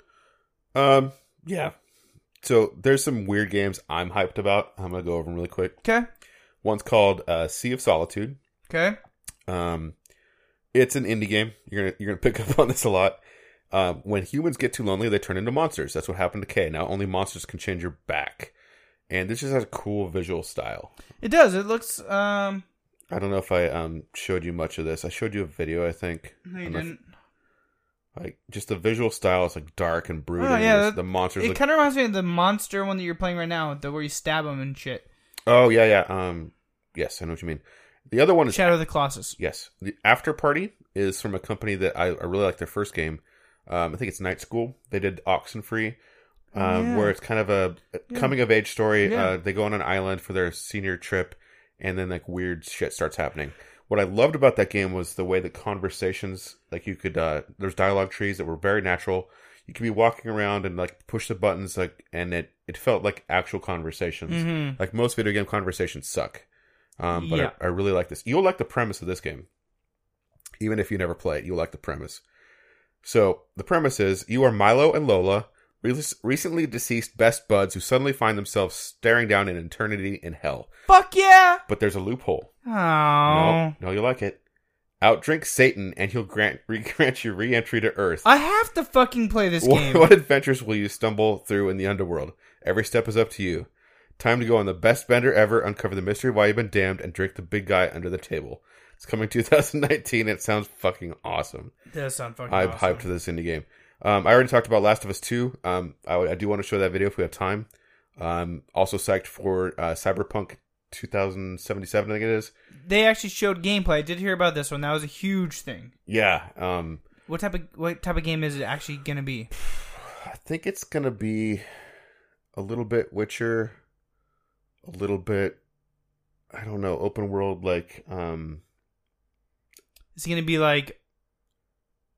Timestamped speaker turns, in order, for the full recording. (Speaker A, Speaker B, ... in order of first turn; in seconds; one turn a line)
Speaker A: 0.7-1.7
Speaker A: 2.4-5.8
Speaker A: 6.6-8.4
Speaker B: 8.7-9.0
Speaker A: 9.5-9.9
Speaker A: 10.7-13.2
Speaker A: 13.7-18.5
Speaker A: 19.1-20.9
Speaker B: 21.2-22.6
Speaker A: 23.1-26.9
Speaker B: 26.4-27.1
Speaker A: 28.1-31.6
Speaker B: 30.4-35.0
Speaker A: 35.5-38.8
Speaker B: 38.5-39.4
Speaker A: 39.4-46.0
Speaker A: 46.5-66.5
Speaker B: 46.5-47.1
Speaker B: 49.0-49.4
Speaker B: 64.3-64.8
Speaker A: 67.0-69.5
Speaker B: 67.1-67.5
Speaker A: 70.6-72.2
Speaker A: 73.0-80.7
Speaker B: 80.9-81.6
Speaker A: 81.7-82.5
Speaker B: 82.7-83.8
Speaker A: 83.2-84.4
Speaker A: 85.0-88.2
Speaker B: 88.2-90.1
Speaker A: 89.6-101.7
Speaker B: 101.9-103.1
Speaker A: 102.5-112.5
Speaker B: 112.8-115.9
Speaker A: 116.1-117.0
Speaker B: 117.3-119.5
Speaker A: 119.6-121.7
Speaker A: 122.5-123.8
Speaker A: 124.8-125.6
Speaker A: 126.5-128.6
Speaker B: 130.2-131.0